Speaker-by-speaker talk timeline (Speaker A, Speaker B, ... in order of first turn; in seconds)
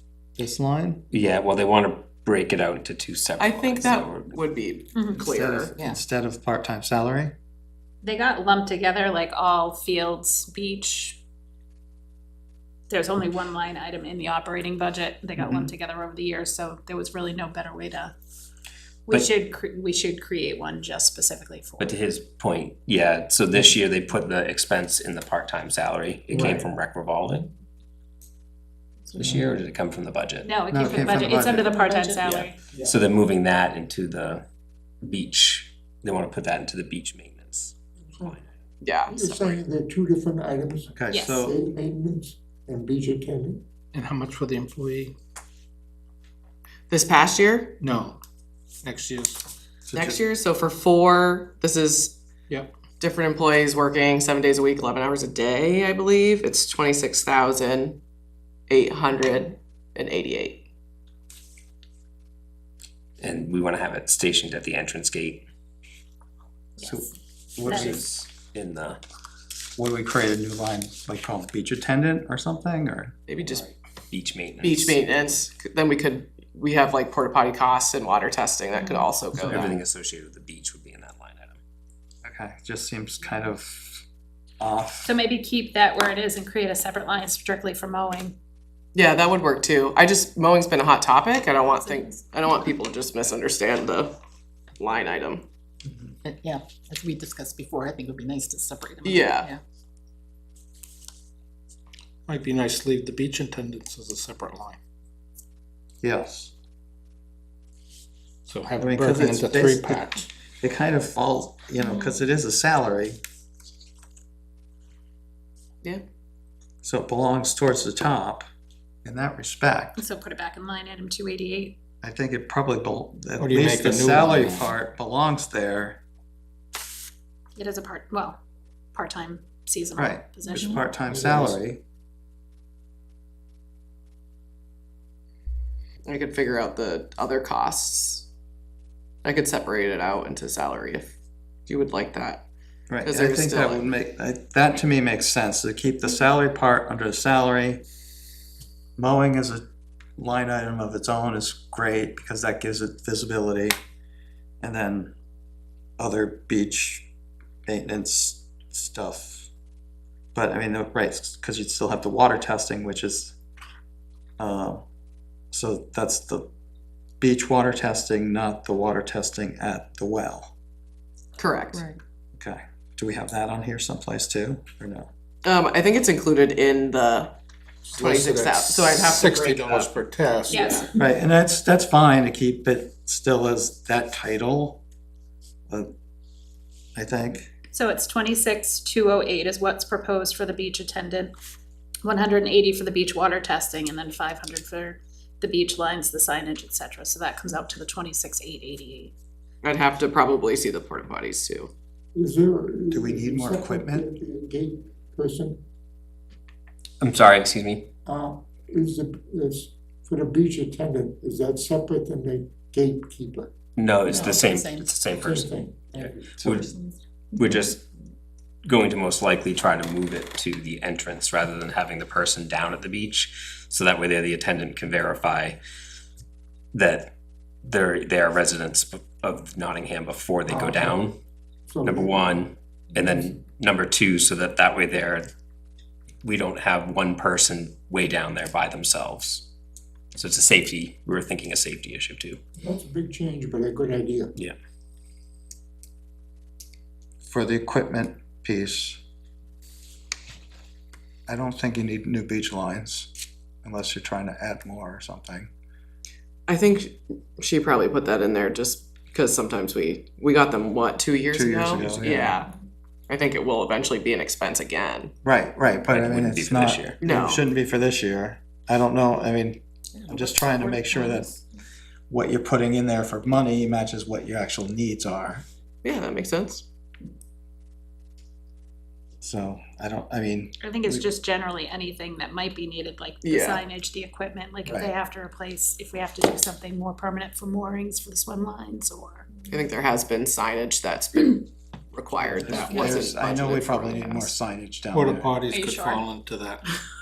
Speaker A: 0.4-1.0, 5.2-7.3, 15.4-15.7, 26.3-26.7, 30.7-31.8, 40.9-41.5, 49.9-50.2, 66.8-68.0, 69.8-73.7, 79.3-79.8, 82.2-84.0, 84.6-85.2, 106.0-106.5, 108.8-110.0, 110.6-113.2, 116.8-118.4, 119.0-120.0, 122.0-126.0, 129.9-131.8, 142.9-147.8, 149.0-149.7, 150.2-153.7, 154.6-155.1, 156.0-157.1, 157.7-159.5, 160.3-163.3, 164.4-164.8, 165.5-166.5, 167.2-170.5, 172.3-175.1, 180.9-184.8, 186.9-187.5, 202.9-204.1, 247.2-249.0, 251.3-253.1, 253.6-255.5, 261.3-262.4, 265.2-271.4, 272.1-275.4, 279.2-281.1, 284.6-284.9, 292.4-295.4
Speaker B: 1.1-4.3, 21.8-27.5, 29.1-30.5, 32.2-34.4, 35.0-37.7, 63.2-65.5, 67.7-69.0, 74.1-75.0, 79.5-81.6, 207.0-207.9, 213.8-216.7, 217.3-217.8, 218.6-225.6, 226.7-227.1, 227.6-231.2, 231.8-235.3, 236.2-239.4, 240.1-242.4, 265.9-266.9
Speaker C: 3.4-5.7, 38.8-39.6, 46.9-47.8, 49.9-52.1, 53.0-58.0, 58.7-60.6, 73.3-73.7, 74.6-79.7, 88.9-94.1, 94.8-95.4, 99.0-99.5, 136.1-138.3, 139.2-141.1, 141.7-142.4, 143.0-143.9, 171.4-171.9, 175.4-177.3, 177.9-180.9, 199.6-201.7, 256.5-262.5, 263.1-265.1, 267.0-267.5, 275.8-276.6, 283.2-283.6, 289.5-294.4
Speaker D: 4.9-5.2, 8.0-11.2, 12.9-18.1, 19.1-21.9, 30.4-32.6, 41.1-41.4, 85.0-88.3, 120.0-121.8, 127.5-128.4, 128.9-130.8, 180.5-180.9, 187.7-191.3, 192.0-199.1, 280.6-289.3, 295.5-296.0
Speaker E: 38.0-38.4, 39.1-43.6, 131.1-131.6, 202.1-205.6, 208.1-213.5, 214.1-214.5, 215.0-216.7, 230.5-231.0, 231.7-232.3, 242.6-244.3
Speaker F: 43.9-45.1, 47.8-48.2, 48.8-49.4, 102.3-104.8, 108.5-110.3, 123.4-124.7, 177.9-180.9, 294.9-296.8
Speaker G: 96.2-99.6, 214.3-214.8